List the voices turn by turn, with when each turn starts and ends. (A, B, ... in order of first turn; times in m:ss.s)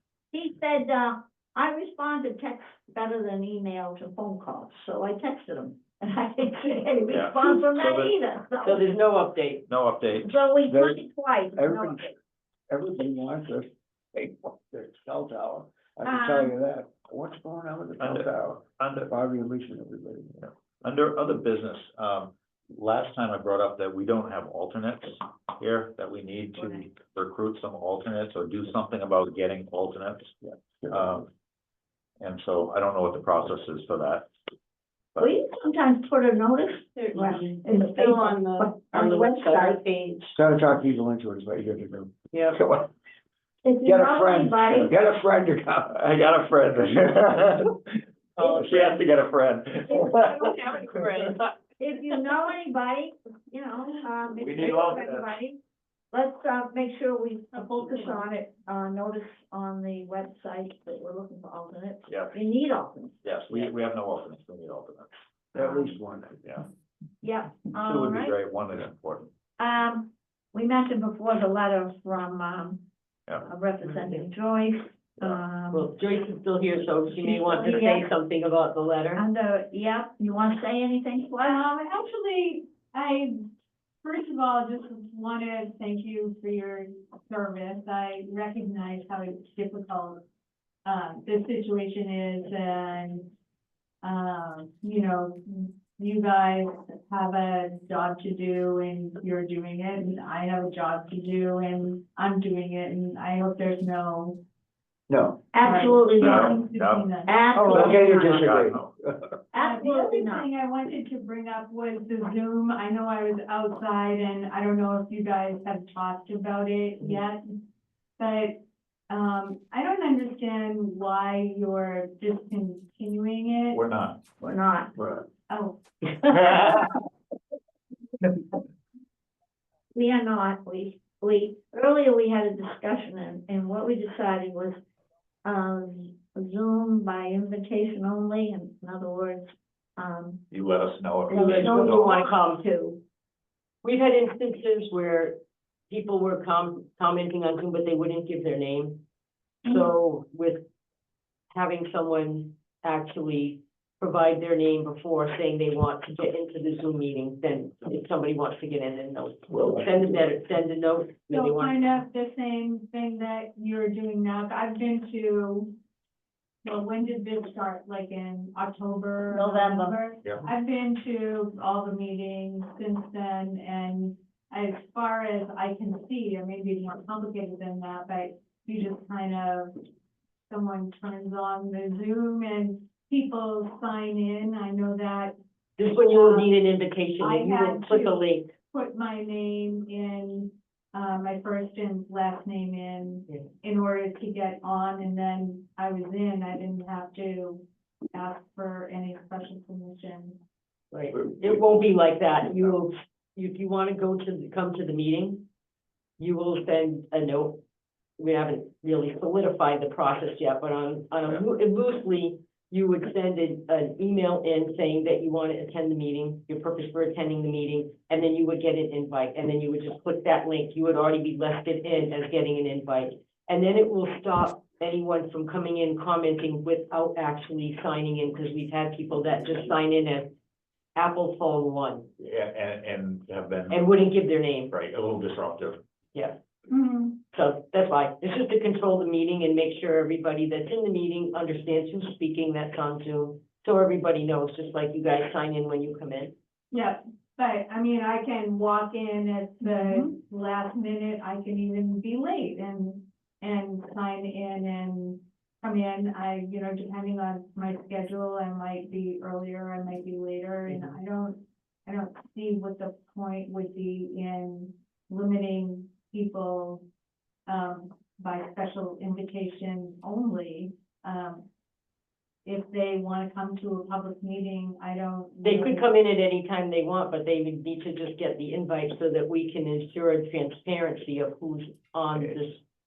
0:00.3-0:09.0 A
0:07.1-0:08.1 B
0:08.6-0:09.6 C
0:09.7-0:10.4 B
0:10.2-0:12.1 A
0:10.7-0:11.0 D
0:11.6-0:12.2 D
0:12.7-0:20.4 D
0:16.0-0:16.5 A
0:18.0-0:19.1 B
0:20.4-0:30.3 B
0:30.4-0:31.2 D
0:30.9-0:31.3 B
0:32.2-0:34.3 B
0:35.2-0:39.8 A
0:37.0-0:40.4 C
0:40.3-0:42.9 D
0:42.3-0:42.6 C
0:43.6-0:44.9 A
0:43.8-0:46.0 D
0:46.0-0:47.7 B
0:48.4-0:51.3 B
0:48.4-0:49.0 C
0:49.9-0:50.8 A
0:50.5-0:51.5 C
0:51.8-0:55.6 A
0:54.4-0:55.4 B
0:56.1-1:03.2 A
1:02.1-1:02.4 B
1:03.2-1:05.1 B
1:05.5-1:06.6 D
1:05.6-1:05.9 A
1:07.2-1:08.4 A
1:07.7-1:09.3 B
1:09.6-1:12.8 A
1:13.4-1:15.9 A
1:13.8-1:14.3 C
1:15.7-1:19.2 C
1:17.2-1:18.1 A
1:19.2-1:21.7 A
1:21.4-1:23.5 E
1:24.0-1:30.2 E
1:30.8-1:33.3 E
1:34.0-1:44.4 E
1:45.1-1:45.4 D
1:45.5-1:46.6 A
1:45.6-1:47.9 E
1:46.1-1:47.1 B
1:47.2-1:48.5 A
1:47.5-1:49.2 D
1:47.8-1:48.9 B
1:49.5-1:50.5 A
1:49.6-1:57.4 E
1:58.2-2:03.8 E
2:03.7-2:04.4 B
2:04.4-2:04.9 A
2:05.5-2:05.8 E
2:06.2-2:06.8 C
2:09.9-2:14.8 A
2:15.4-2:20.4 A
2:20.5-2:22.3 B
2:21.3-2:23.0 A
2:21.3-2:22.6 C
2:23.8-2:29.0 C
2:29.6-2:30.6 C
2:31.5-2:42.0 C
2:39.5-2:40.0 D
2:41.3-2:45.7 E
2:46.6-2:59.7 E
2:49.3-2:50.0 A
3:00.5-3:05.4 E
3:05.8-3:08.5 C
3:05.9-3:06.5 E
3:07.2-3:08.2 E
3:08.7-3:20.4 E
3:20.9-3:25.4 C
3:21.1-3:21.8 B
3:26.2-3:27.6 C
3:28.2-3:50.3 C
3:51.0-3:52.1 C
3:52.2-3:54.1 B
3:53.7-3:54.7 C
3:54.7-3:55.8 B
3:56.7-3:57.1 E
3:57.3-4:06.3 C
4:06.7-4:26.8 E
4:20.7-4:21.0 C
4:27.4-4:31.5 E
4:32.4-4:35.9 E
4:35.4-4:42.6 C
4:42.1-4:42.4 B